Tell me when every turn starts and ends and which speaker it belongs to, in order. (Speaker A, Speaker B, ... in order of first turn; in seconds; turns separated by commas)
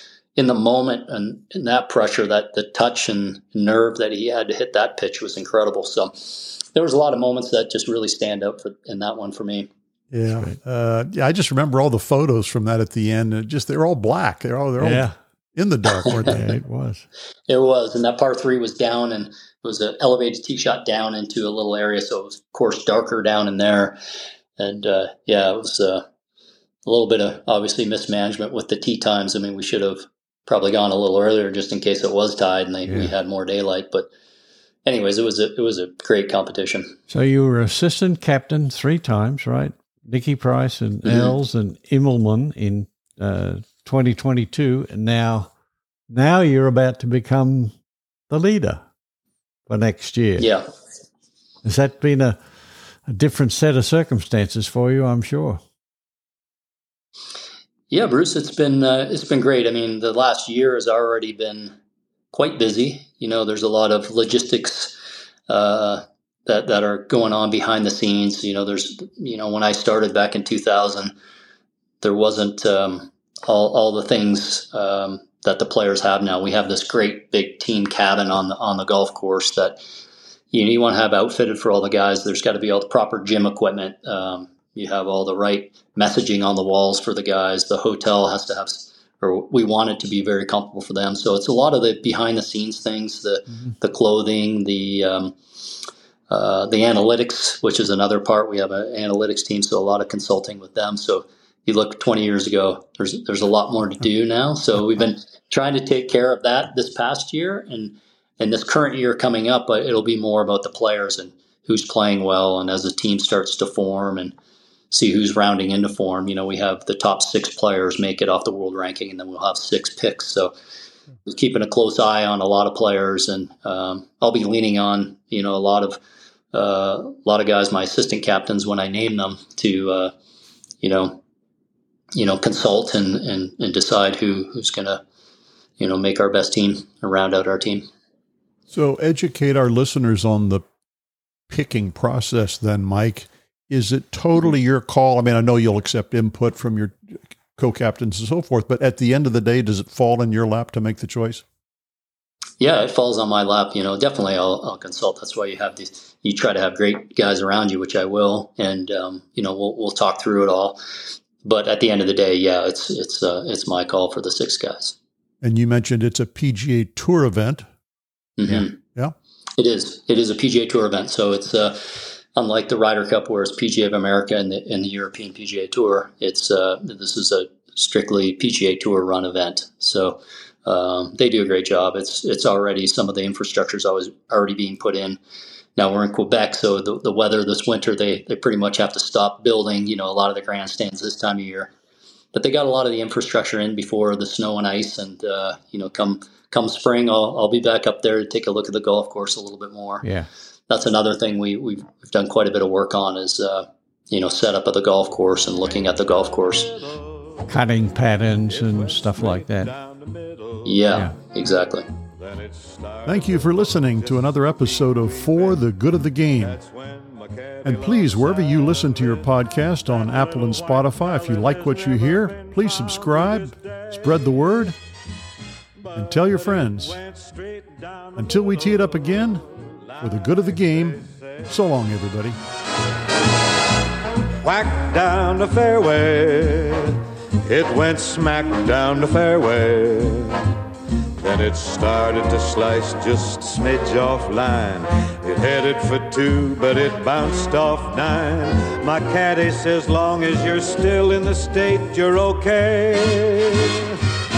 Speaker A: 0.3-9.7, Speaker B: 10.1-16.4, Speaker C: 10.2-10.6, Speaker C: 14.8-15.1, Speaker C: 16.2-17.1, Speaker A: 17.5-24.0, Speaker A: 24.6-26.0, Speaker A: 26.8-34.1, Speaker C: 32.9-33.1, Speaker A: 34.9-37.0, Speaker C: 37.1-45.5, Speaker A: 41.0-41.4, Speaker C: 46.1-47.7, Speaker C: 48.3-48.8, Speaker C: 49.7-50.5, Speaker A: 50.4-50.7, Speaker C: 51.6-52.4, Speaker C: 53.0-55.6, Speaker A: 57.9-61.8, Speaker A: 62.3-71.1, Speaker A: 72.0-79.8, Speaker A: 80.5-95.7, Speaker A: 96.3-114.3, Speaker A: 114.9-120.5, Speaker A: 121.2-126.0, Speaker A: 126.5-130.1, Speaker A: 130.8-131.2, Speaker A: 132.1-135.0, Speaker A: 135.8-137.9, Speaker B: 138.7-140.6, Speaker B: 141.5-151.4, Speaker A: 152.6-164.9, Speaker B: 165.4-167.6, Speaker A: 168.4-168.8, Speaker B: 168.5-169.1, Speaker A: 169.6-185.2, Speaker A: 185.8-191.7, Speaker A: 192.3-200.0, Speaker C: 200.0-200.3, Speaker A: 200.7-206.8, Speaker D: 205.7-211.1, Speaker C: 207.5-209.7, Speaker A: 210.6-211.9, Speaker D: 212.1-215.7, Speaker B: 213.1-216.6, Speaker D: 216.4-224.7, Speaker B: 217.6-224.8, Speaker D: 225.8-231.6, Speaker B: 225.9-227.0, Speaker B: 228.2-229.4, Speaker B: 230.0-232.4, Speaker D: 234.4-240.5, Speaker D: 241.2-253.9